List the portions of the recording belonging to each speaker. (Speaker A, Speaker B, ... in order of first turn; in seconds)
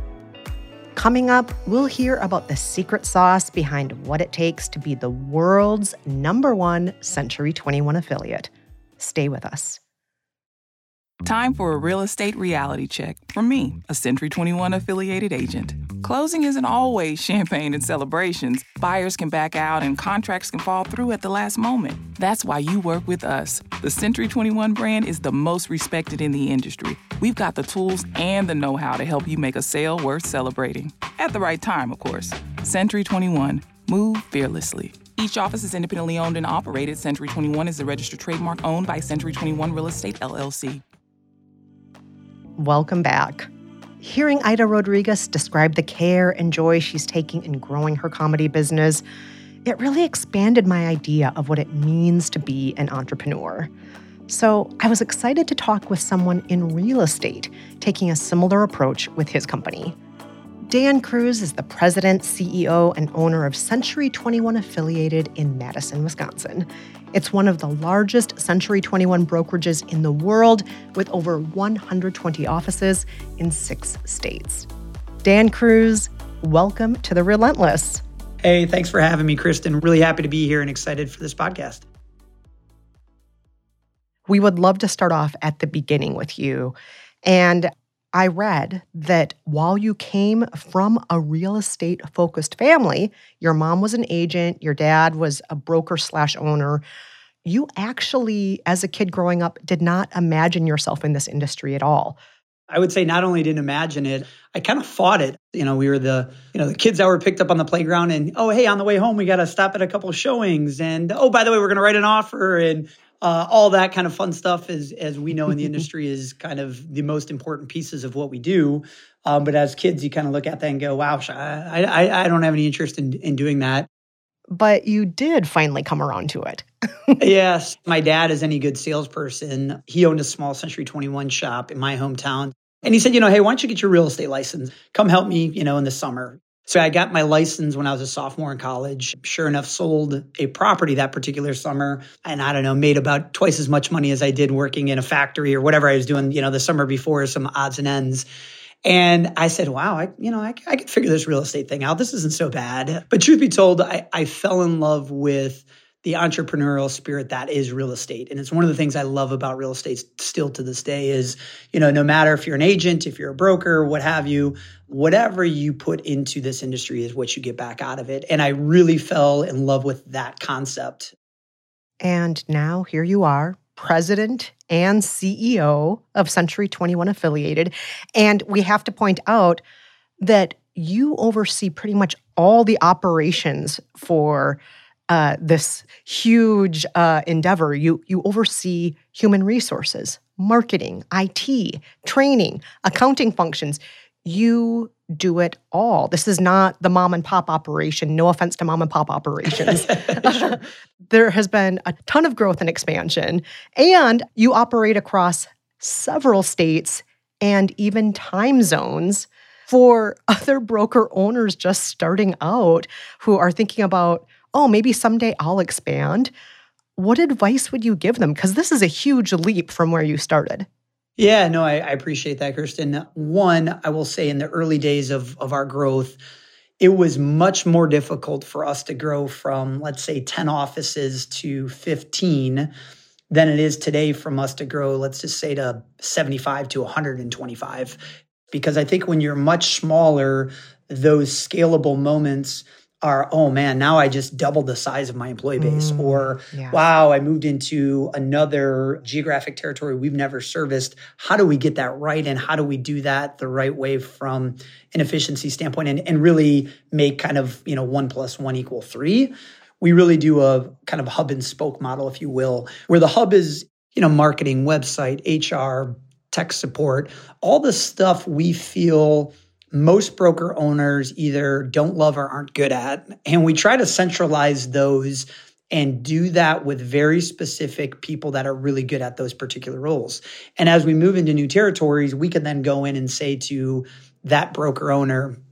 Speaker A: 0.9-9.8, 42.6-49.0, 49.6-53.7, 54.3-60.0, 60.7-74.7, 75.2-78.0, 84.3-96.8, 97.5-102.2, 124.5-127.2, 172.0-179.6, 180.2-184.6, 185.1-216.3, 217.0-220.7, 245.6-246.8
Speaker B: 11.2-40.8
Speaker C: 78.4-81.8, 102.7-123.9, 127.2-148.3, 148.8-171.1, 221.2-226.2, 226.8-232.7, 233.3-285.4